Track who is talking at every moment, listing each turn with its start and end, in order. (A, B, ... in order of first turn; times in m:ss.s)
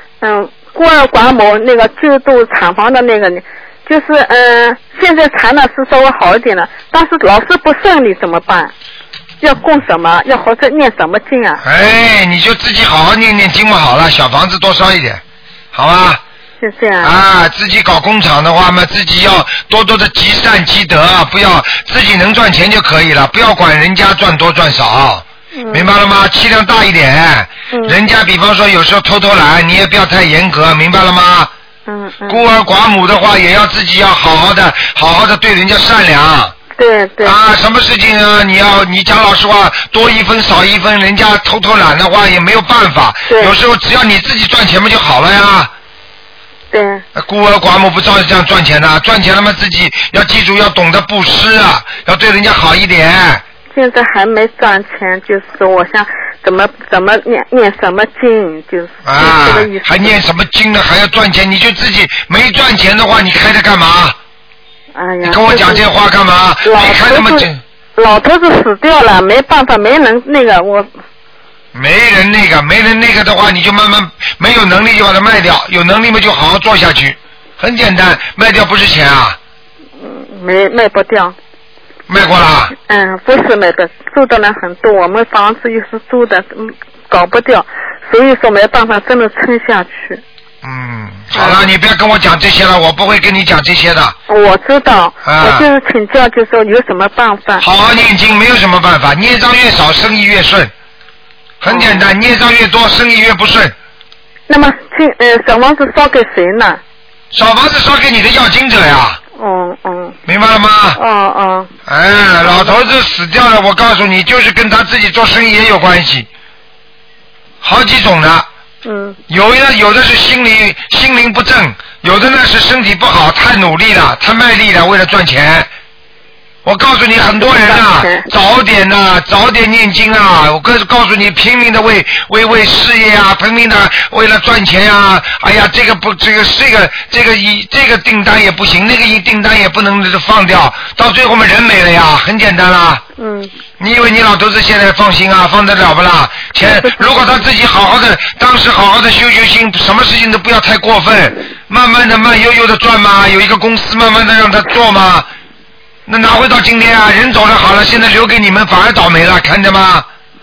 0:00.2-0:08.7 A
0:09.4-0:11.6 A
0:11.6-0:15.2 B
0:15.7-0:16.2 B
0:16.6-0:17.1 A
0:17.0-0:31.5 B
0:25.6-0:25.9 A
0:27.7-0:28.0 A
0:31.8-0:32.4 A
0:32.3-0:36.5 B
0:36.7-0:37.4 A
0:37.2-0:45.7 B
0:43.3-0:43.5 A
0:46.7-0:47.0 A
0:47.1-0:53.4 B
0:53.7-1:00.2 A
0:59.0-1:04.2 B
1:04.9-1:05.8 A
1:05.2-1:07.6 B
1:06.6-1:10.9 A
1:11.7-1:19.4 B
1:20.0-1:21.3 A
1:22.1-1:22.7 B
1:22.8-1:30.2 A
1:30.6-1:34.1 B
1:31.3-1:31.7 A
1:34.3-1:37.6 A
1:35.2-1:35.7 B
1:37.6-1:40.7 B
1:41.6-1:43.7 B
1:41.7-1:42.1 A
1:44.5-1:46.8 A
1:47.3-1:49.2 B
1:49.4-1:50.2 A
1:50.2-1:51.0 B
1:51.0-1:51.7 A
1:51.9-1:56.3 B
1:52.4-1:52.8 A
1:57.6-1:58.4 B
1:58.8-1:59.2 A
1:59.3-2:05.7 B
2:06.6-2:23.0 B
2:07.4-2:08.3 A
2:23.2-2:23.5 A
2:23.8-2:35.2 B
2:26.6-2:27.1 A
2:36.1-2:40.0 B